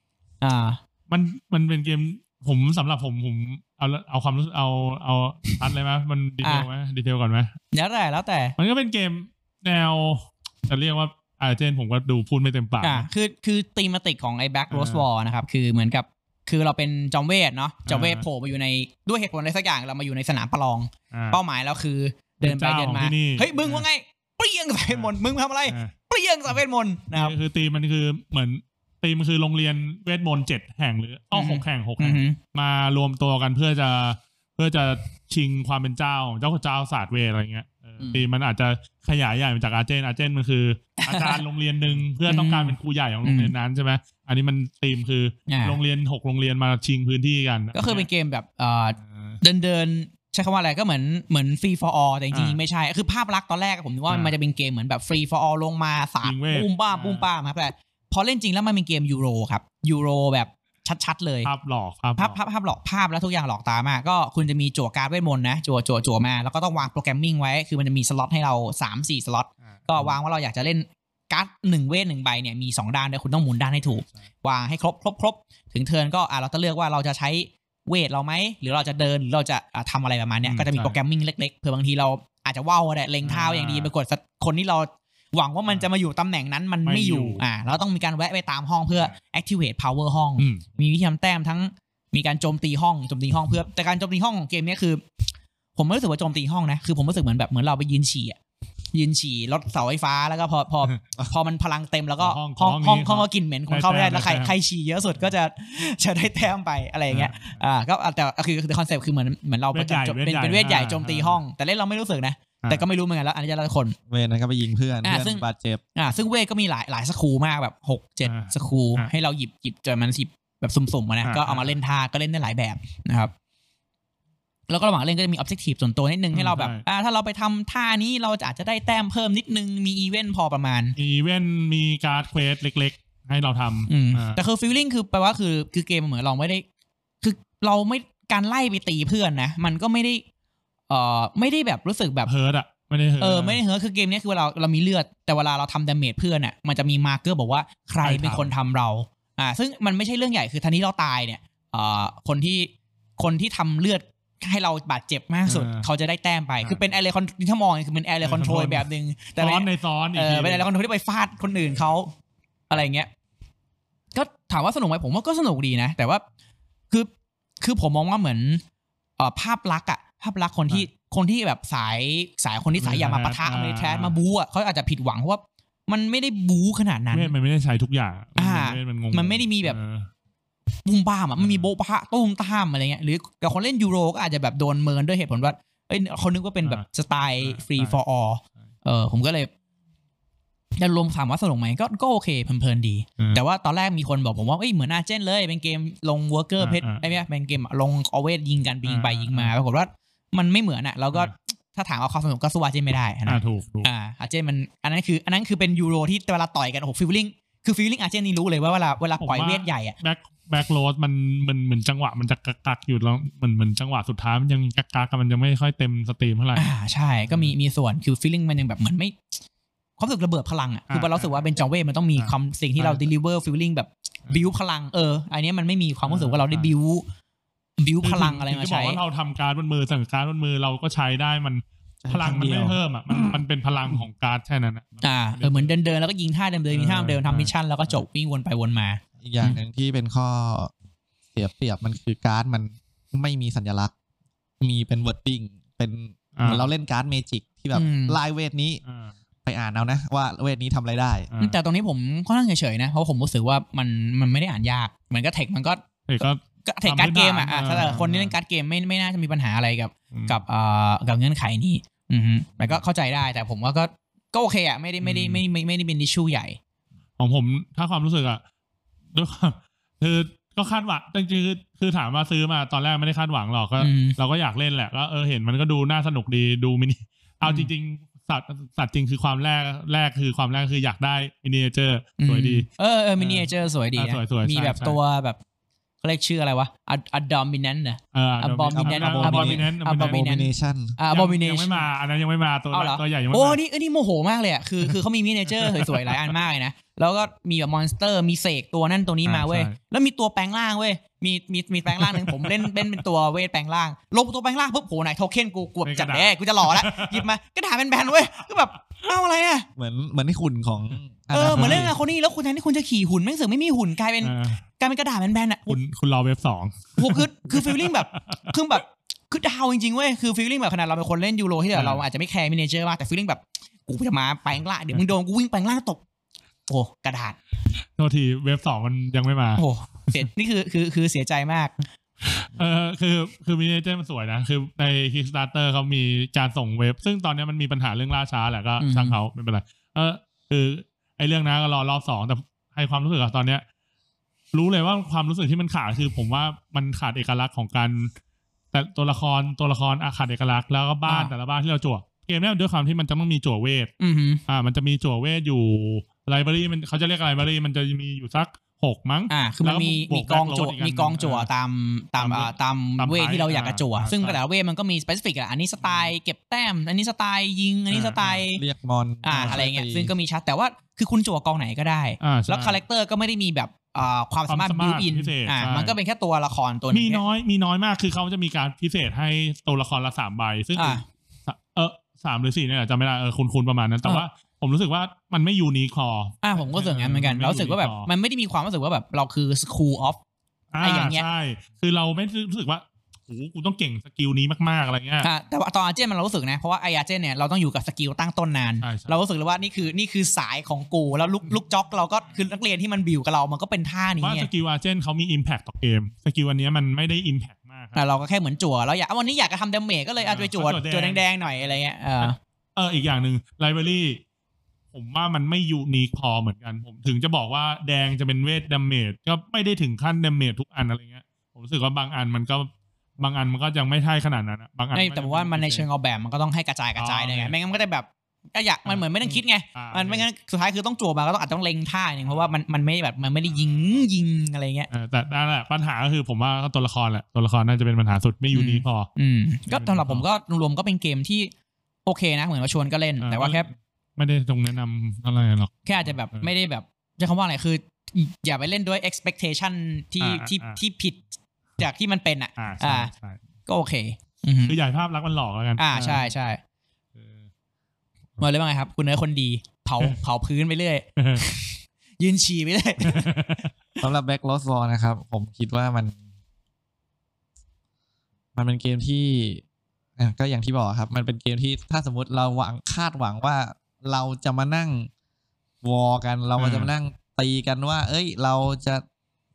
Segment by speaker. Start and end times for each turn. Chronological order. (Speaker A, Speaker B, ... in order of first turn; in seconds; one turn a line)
Speaker A: 0.4-0.8
Speaker B: 1.1-7.5
Speaker A: 6.4-6.7
Speaker A: 7.7-8.5
Speaker B: 8.6-13.1
Speaker A: 12.8-27.4
Speaker B: 14.7-15.1
Speaker B: 17.9-18.2
Speaker B: 21.1-21.4
Speaker B: 22.4-23.8
Speaker B: 24.9-25.1
Speaker B: 25.7-25.9
Speaker B: 27.1-48.1
Speaker A: 31.3-32.4
Speaker A: 41.0-41.4
Speaker A: 42.3-43.5
Speaker A: 45.5-45.8
Speaker A: 47.7-61.5
Speaker B: 49.0-49.4
Speaker B: 52.3-52.6
Speaker B: 54.1-54.4
Speaker B: 56.2-57.3
Speaker B: 61.4-62.4
Speaker A: 62.2-95.0
Speaker B: 69.7-70.2
Speaker B: 74.0-74.3
Speaker B: 80.4-81.0
Speaker B: 83.2-83.9
Speaker B: 86.8-87.4
Speaker B: 90.4-90.6
Speaker A: 95.8-98.4
Speaker A: 98.9-114.0
Speaker B: 102.2-104.5
Speaker B: 107.1-107.6
Speaker B: 109.7-111.4
Speaker C: 114.1-115.8
Speaker A: 115.0-115.4
Speaker A: 116.0-123.3
Speaker B: 118.2-119.1
Speaker B: 121.2-121.7
Speaker A: 124.7-130.9
Speaker B: 126.3-126.8
Speaker B: 131.0-134.4
Speaker A: 133.9-136.6
Speaker A: 137.2-140.2
Speaker A: 140.9-142.3
Speaker B: 142.2-143.6
Speaker A: 143.2-162.1
Speaker B: 148.0-148.5
Speaker B: 155.5-155.9
Speaker B: 158.2-160.7
Speaker A: 162.7-163.1
Speaker A: 164.1-166.2
Speaker A: 167.6-168.6
Speaker A: 169.2-177.3
Speaker B: 172.8-174.2
Speaker B: 177.1-180.1
Speaker A: 178.4-179.8
Speaker A: 180.8-189.5
Speaker B: 181.4-181.7
Speaker B: 187.4-188.0
Speaker A: 190.8-209.9
Speaker B: 196.6-197.2
Speaker B: 198.8-199.5
Speaker B: 203.2-203.9
Speaker B: 209.2-216.7
Speaker A: 216.6-219.2
Speaker B: 217.2-217.5
Speaker A: 220.0-227.1
Speaker B: 220.9-221.4
Speaker B: 222.2-223.1
Speaker B: 226.0-226.7
Speaker A: 227.8-229.0
Speaker B: 228.0-235.7
Speaker C: 232.0-232.8
Speaker A: 235.0-239.6
Speaker B: 236.7-238.0
Speaker C: 239.2-240.7
Speaker C: 241.3-243.9
Speaker C: 244.6-248.8
Speaker B: 246.3-246.7
Speaker A: 247.7-248.2
Speaker B: 248.8-249.1
Speaker C: 249.4-251.3
Speaker B: 251.3-251.6
Speaker A: 251.4-266.6
Speaker B: 256.1-258.3
Speaker B: 260.1-260.4
Speaker B: 265.0-265.4
Speaker B: 267.2-268.4
Speaker B: 269.1-282.7
Speaker A: 273.8-274.1
Speaker A: 277.4-277.7
Speaker A: 282.2-285.4
Speaker B: 283.2-285.0
Speaker A: 286.0-291.9
Speaker B: 288.1-290.2
Speaker C: 288.7-290.9
Speaker B: 291.1-293.6
Speaker A: 292.7-309.7
Speaker B: 295.5-296.3
Speaker B: 299.2-299.7
Speaker B: 301.9-303.0
Speaker B: 305.8-307.3
Speaker C: 309.8-311.9
Speaker A: 311.3-315.8
Speaker B: 311.5-311.9
Speaker B: 314.2-314.6
Speaker B: 315.7-318.5
Speaker A: 317.0-326.0
Speaker B: 321.7-322.0
Speaker A: 326.7-327.4
Speaker B: 327.8-330.2
Speaker A: 329.6-331.7
Speaker B: 332.2-343.6
Speaker A: 338.8-339.1
Speaker B: 344.5-348.1
Speaker B: 348.7-353.9
Speaker A: 351.1-351.3
Speaker A: 354.0-354.4
Speaker B: 354.5-361.5
Speaker A: 359.3-368.6
Speaker B: 362.2-364.4
Speaker B: 365.8-366.1
Speaker B: 367.9-368.4
Speaker C: 368.5-370.1
Speaker A: 369.2-377.2
Speaker B: 372.2-372.8
Speaker B: 374.5-375.9
Speaker B: 376.9-388.1
Speaker A: 380.8-381.0
Speaker A: 386.4-390.2
Speaker B: 390.7-395.3
Speaker A: 390.8-391.2
Speaker A: 395.2-404.5
Speaker B: 398.8-399.2
Speaker B: 404.2-408.0
Speaker A: 407.9-412.4
Speaker B: 410.2-414.2
Speaker B: 414.9-425.9
Speaker A: 424.9-434.9
Speaker B: 427.0-427.5
Speaker B: 428.8-430.3
Speaker B: 434.9-439.1
Speaker A: 438.5-441.5
Speaker B: 439.7-440.2
Speaker A: 442.1-443.7
Speaker B: 443.2-446.5
Speaker A: 445.8-451.2
Speaker B: 450.2-450.8
Speaker A: 451.8-453.1
Speaker B: 452.6-453.4
Speaker A: 453.6-454.8
Speaker B: 454.6-456.3
Speaker A: 455.8-456.6
Speaker A: 458.4-463.3
Speaker B: 461.2-461.4
Speaker B: 463.0-463.7
Speaker C: 464.0-466.1
Speaker C: 468.5-469.6
Speaker C: 470.2-475.1
Speaker C: 475.8-479.0
Speaker B: 476.6-476.9